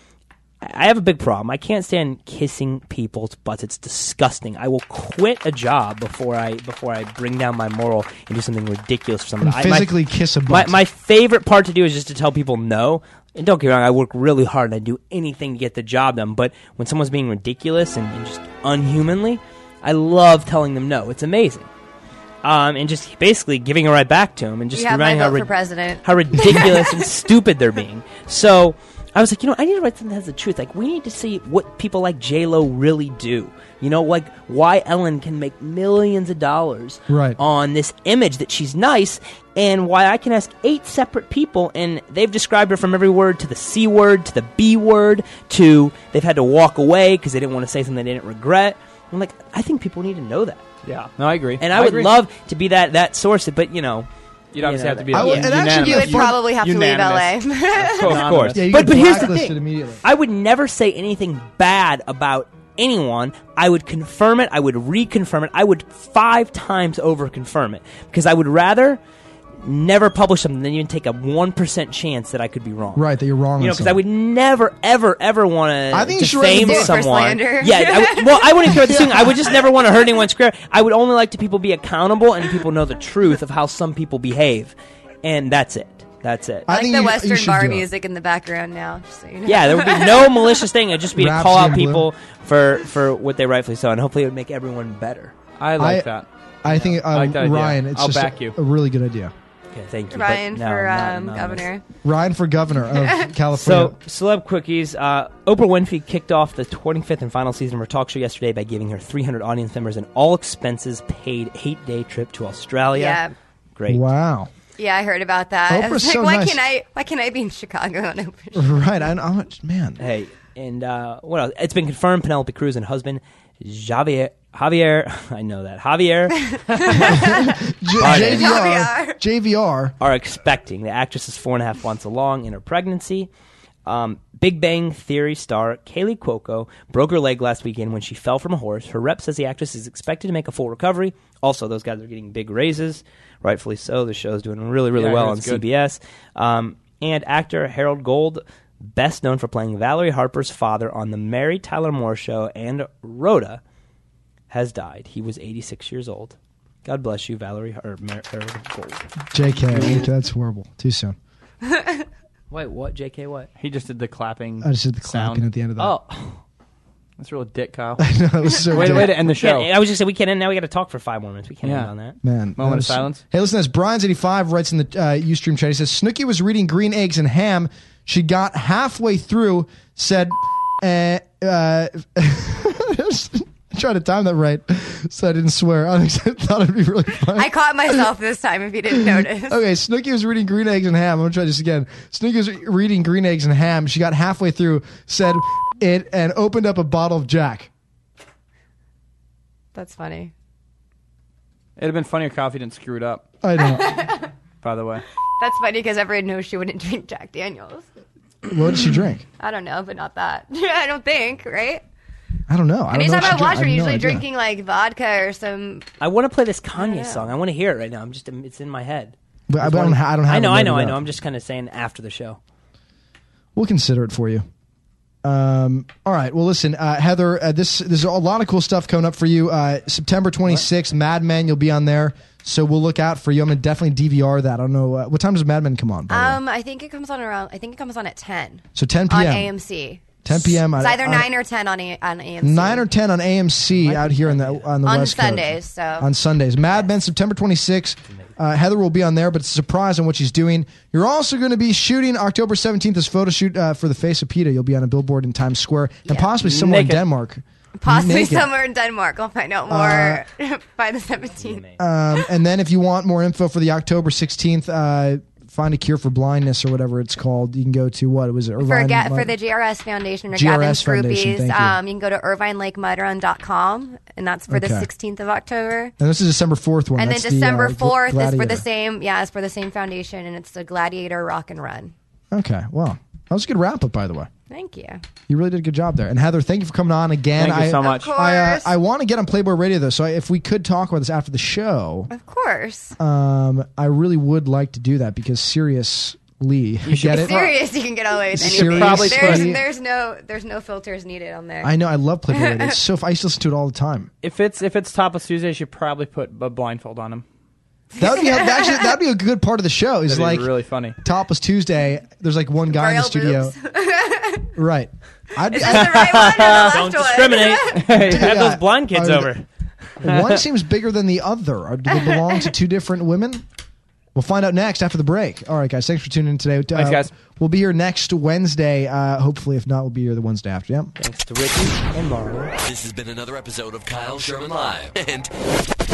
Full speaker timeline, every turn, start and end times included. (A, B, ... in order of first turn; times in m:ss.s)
0:00.6-0:09.9 A
0:09.4-0:10.8 B
0:10.5-0:21.7 A
0:22.4-0:25.5 A
0:24.7-0:26.8 C
0:26.0-0:50.6 A
0:37.1-0:37.4 B
0:50.8-0:52.1 D
0:51.6-0:55.5 A
0:54.5-0:59.4 D
0:55.1-0:56.4 B
0:55.7-0:58.2 C
0:58.0-1:09.0 A
0:58.5-1:00.0 B
1:09.6-1:13.0 A
1:12.9-1:14.0 B
1:13.6-1:26.7 A
1:15.9-1:17.0 B
1:16.5-1:18.4 C
1:18.7-1:19.4 B
1:26.7-1:27.8 B
1:26.7-1:30.3 C
1:29.4-1:35.3 A
1:31.1-1:32.1 B
1:35.6-1:38.6 D
1:35.8-1:36.1 B
1:36.6-1:39.3 B
1:39.7-1:41.6 A
1:40.1-1:41.8 C
1:42.0-1:44.0 B
1:42.9-1:43.3 C
1:43.5-1:53.2 A
1:52.9-1:53.3 C
1:53.8-1:54.0 A
1:53.9-1:54.5 B
1:54.8-1:58.7 C
1:55.7-1:56.6 B
1:58.5-2:00.0 B
2:00.0-2:07.2 A
2:06.6-2:07.5 C
2:07.0-2:09.9 B
2:08.0-2:08.6 A
2:08.1-2:09.2 C
2:10.0-2:13.3 A
2:13.8-2:33.6 A
2:25.0-2:25.6 D
2:34.5-2:39.1 A
2:39.3-2:41.2 B
2:39.7-2:40.0 A
2:39.8-2:40.0 D
2:41.6-2:42.0 C
2:42.5-2:43.5 A
2:43.6-2:46.4 D
2:44.6-2:45.9 B
2:47.2-2:48.1 D
2:48.0-2:49.2 B
2:48.6-2:49.7 D
2:48.8-2:52.2 A
2:51.6-2:51.9 D
2:52.2-3:08.0 B
2:52.6-2:53.2 D
3:07.3-3:09.6 C
3:08.9-3:17.7 B
3:19.7-3:20.3 C
3:21.8-3:23.2 D
3:23.4-3:24.0 B
3:23.6-3:24.3 C
3:24.6-3:25.0 D
3:25.4-3:27.9 C
3:28.4-3:29.2 B
3:29.4-3:31.8 C
3:32.5-3:34.2 B
3:32.9-3:35.8 C
3:36.0-3:42.4 A
3:36.8-3:37.3 C
3:39.5-3:41.0 B
3:43.6-3:44.4 B
3:45.2-3:56.4 B
3:56.1-4:02.8 C
3:58.7-3:59.5 B
4:00.2-4:01.3 B
4:02.4-4:18.5 B
4:03.8-4:04.8 A
4:04.8-4:06.1 C
4:16.4-4:17.0 D
4:17.8-4:21.6 C
4:19.7-4:20.2 B
4:21.4-4:21.8 A
4:21.8-4:29.3 B
4:28.6-4:35.9 C
4:30.3-4:31.8 B
4:34.5-4:34.9 B
4:36.0-4:38.6 B
4:37.0-4:41.9 C
4:42.3-4:44.3 B
4:44.5-4:45.0 C
4:45.3-4:52.1 B
4:47.4-4:48.1 D
4:47.8-4:48.7 C
4:52.1-4:53.0 C
4:53.0-4:57.5 B
4:56.8-4:57.4 D
4:57.1-5:01.7 C
4:58.3-4:59.6 B
4:58.4-4:59.5 D
5:01.6-5:04.1 B
5:02.3-5:02.8 C
5:04.2-5:07.2 D
5:08.0-5:13.5 B
5:08.0-5:08.9 C
5:10.1-5:11.0 D
5:12.7-5:14.5 C
5:14.5-5:16.5 B
5:15.5-5:17.8 C
5:15.7-5:16.8 D
5:16.5-5:19.4 A
5:17.7-5:18.4 D
5:17.9-5:19.3 B
5:20.0-5:23.4 B
5:20.0-5:20.4 D
5:21.9-5:22.4 C
5:24.1-5:30.9 B
5:26.7-5:27.1 D
5:31.0-5:32.5 A
5:32.6-5:35.3 E